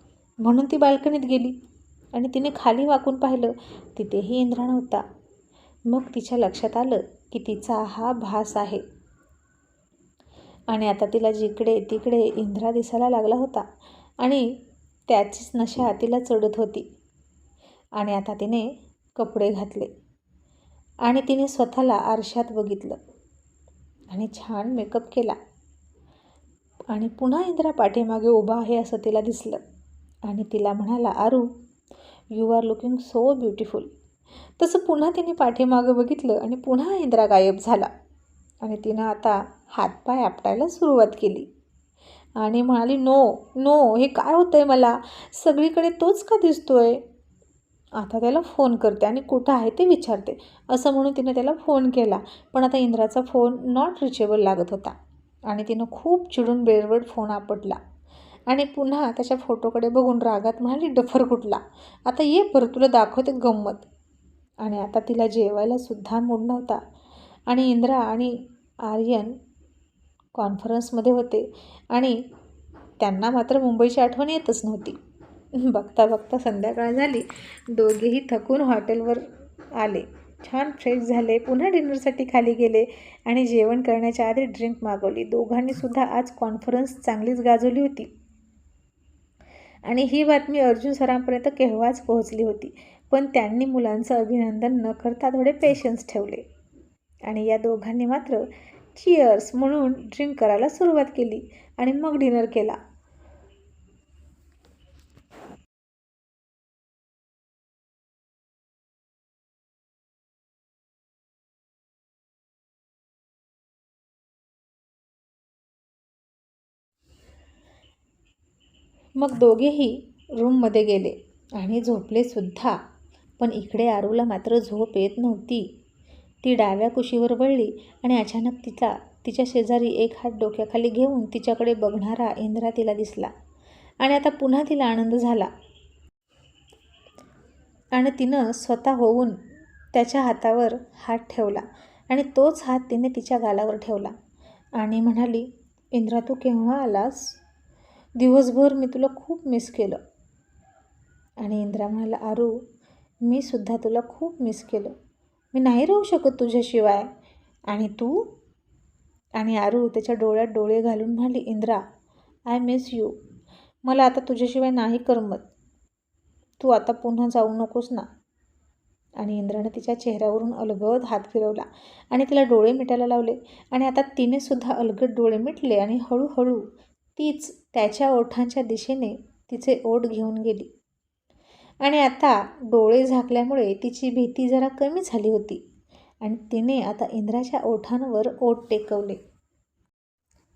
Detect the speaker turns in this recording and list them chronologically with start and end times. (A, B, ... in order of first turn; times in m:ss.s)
0:00.4-0:01.6 A
0:02.1-0:05.0 A
0:05.9-0:08.8 A
0:10.7-0:13.7 A
0:14.2-0:14.5 A
0:15.1-0:16.9 A
0:18.0-0:19.9 A
0:21.0-0:23.0 A
0:24.1-0:25.4 A
0:26.9-0:29.6 A
0:30.3-0:31.5 A
0:32.3-0:33.9 A
0:34.6-0:37.9 A
0:38.6-0:41.5 A
0:42.4-0:47.0 A
0:48.0-0:57.8 A
0:58.5-1:03.9 A
1:04.6-1:06.8 A
1:07.5-1:09.4 A
1:10.4-1:12.2 A
1:13.0-1:15.0 A
1:15.6-1:28.1 A
1:29.8-1:36.4 A
1:37.2-1:42.8 A
1:59.2-2:02.8 A
2:03.4-2:05.7 A
2:06.4-2:13.3 A
2:14.0-2:15.5 A
2:17.9-2:19.4 A
2:19.9-2:24.1 A
2:24.8-2:27.4 A
2:28.2-2:30.0 A
2:31.4-2:32.6 A
2:33.2-2:34.9 A
2:35.5-2:37.1 A
2:37.7-2:38.3 A
2:39.4-2:41.8 A
2:42.5-2:43.1 A
2:43.8-2:45.5 A
2:46.6-2:48.1 A
2:49.2-3:00.7 A
3:01.8-3:05.6 A
3:06.2-3:09.2 A